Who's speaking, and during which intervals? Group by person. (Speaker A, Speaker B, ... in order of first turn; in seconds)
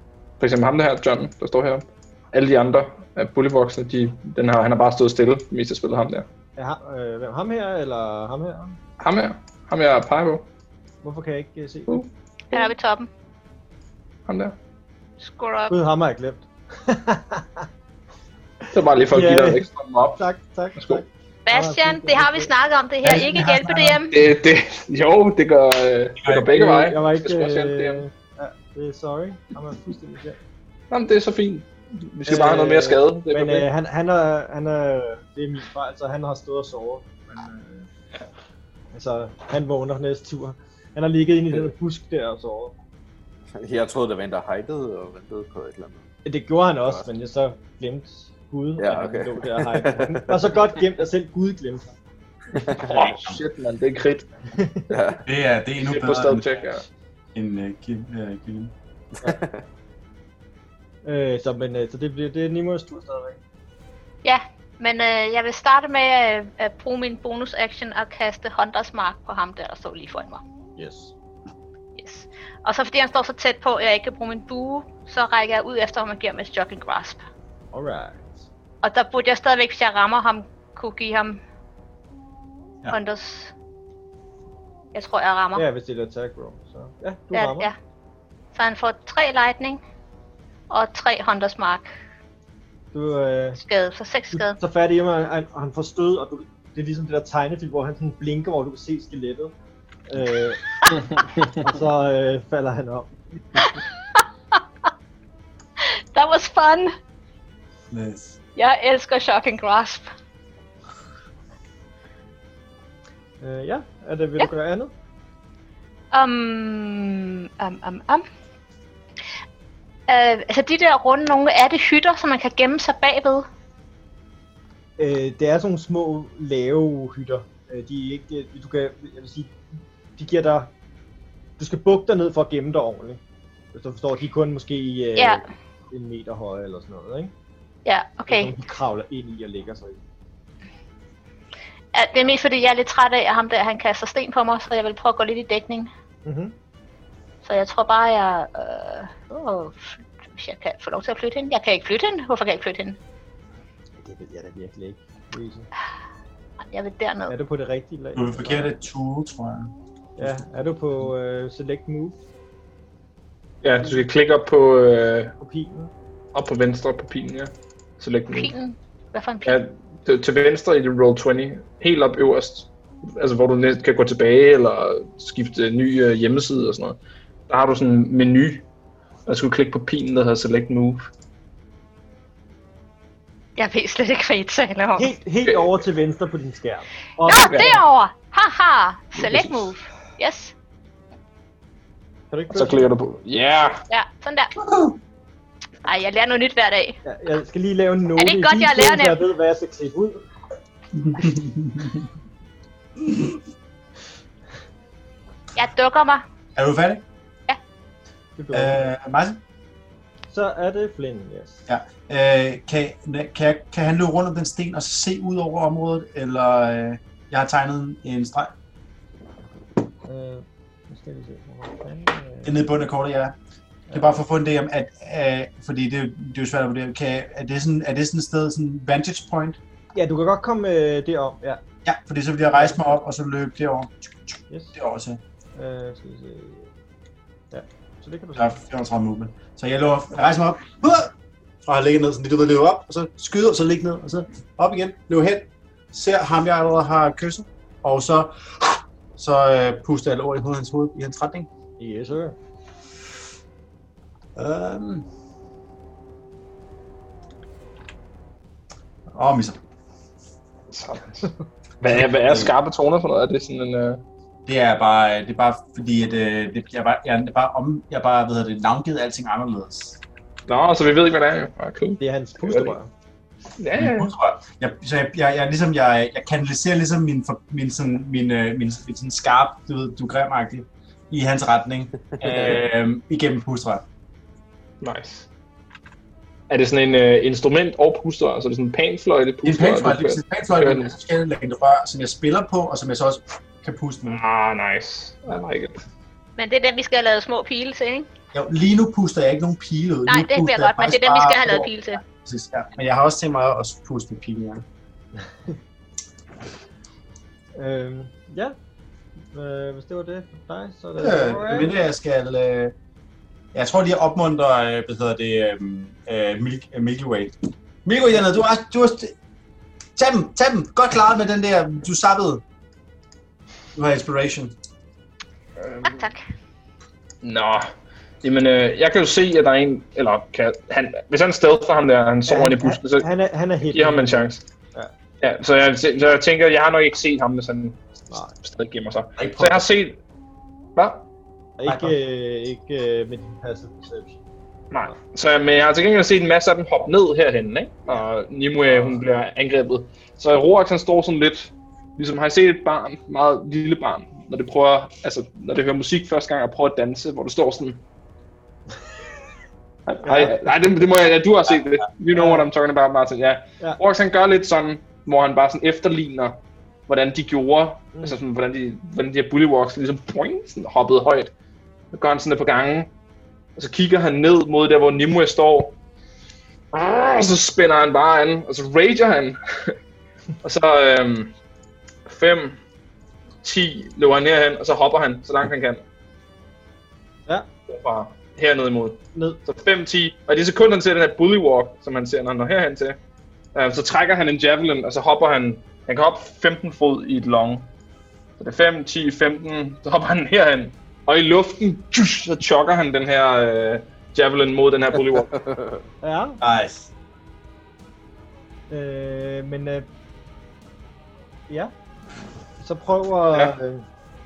Speaker A: 0.4-6.3, 9.0-10.5, 14.2-14.5, 18.7-20.2, 20.8-21.0, 24.1-28.0, 30.9-33.6, 52.7-54.3, 55.8-56.8, 163.6-165.3, 166.3-168.5, 169.4-177.0, 177.5-178.6, 179.3-181.1, 189.1-189.7, 192.5-193.8, 260.7-264.0, 270.5-272.8, 273.6-274.1, 282.2-282.6, 284.8-285.3, 286.5-290.9, 294.1-295.8, 325.6-325.9, 327.2-327.6, 328.2-333.1, 333.6-334.4, 335.2-337.8, 338.3-340.0, 340.8-341.0, 344.7-357.8, 359.9-371.3, 371.9-372.9, 373.6-375.7, 376.7-379.4, 380.4-381.3, 382.1-382.6, 383.4-385.8, 387.7-393.0, 393.5-397.7, 398.4-405.4
Speaker B: 6.5-8.8, 11.0-12.0, 15.7-17.7, 19.1-22.5, 26.5-30.4, 32.3-37.9, 38.9-42.7, 46.2-51.9, 54.5-54.8, 61.0-63.4, 70.8-71.1, 77.7-78.5, 85.5-87.7, 92.9-93.6, 94.3-99.5, 100.1-103.7, 113.4-114.9, 125.0-129.6, 130.2-130.7, 131.6-133.2, 133.7-137.3, 138.3-140.0, 146.2-146.5, 154.0-155.7, 157.3-158.8, 160.2-162.2, 165.4-165.9, 185.0-187.8, 192.3-192.9, 197.0-200.2, 208.4-208.9, 210.3-211.7, 220.1-222.6, 223.9-224.2, 229.9-231.6, 232.5-232.9, 234.5-234.8, 235.6-236.7, 237.5-238.6, 251.8-252.4, 272.0-272.9, 305.2-305.5, 307.6-308.5, 309.3-311.7, 332.2-334.9, 341.6-344.2, 360.0-360.3, 362.1-362.5, 389.1-389.4, 406.0-406.4, 408.7-409.9, 412.6-413.9
Speaker C: 12.5-13.1, 15.2-15.7, 21.4-24.1, 64.2-70.4, 72.0-77.2, 78.8-81.4, 82.9-83.5, 84.9-85.7, 87.3-87.7, 88.5-89.8, 90.7-91.9, 93.5-94.6, 103.6-104.6, 105.8-106.9, 108.5-110.1, 116.1-118.2, 120.1-123.5, 135.2-135.4, 137.8-138.5, 141.9-145.9, 147.4-153.0, 156.6-157.3, 168.3-169.6, 183.6-185.1, 187.2-190.5, 193.9-194.5, 195.8-197.0, 198.2-199.2, 205.6-206.2, 296.4-298.1, 300.1-302.0, 325.8-326.2
Speaker D: 23.0-24.0, 26.2-26.5, 52.9-53.4, 55.2-56.6, 57.3-58.7, 107.9-108.4, 158.1-159.7, 200.9-202.0, 206.6-207.0, 208.5-209.4, 211.7-218.5, 222.4-223.3, 223.9-229.6, 231.8-235.2, 238.3-241.1, 241.7-251.5, 254.3-255.1, 259.1-259.6, 261.9-262.5, 264.4-270.0, 273.8-283.8, 289.4-294.2, 298.3-304.6, 311.0-312.7, 313.5-319.1, 319.9-322.4, 323.7-324.5, 339.2-339.7, 341.6-341.9, 406.4-406.9
Speaker E: 43.5-46.0, 48.8-50.5, 52.5-52.8, 54.9-55.2, 59.2-59.6, 405.3-405.8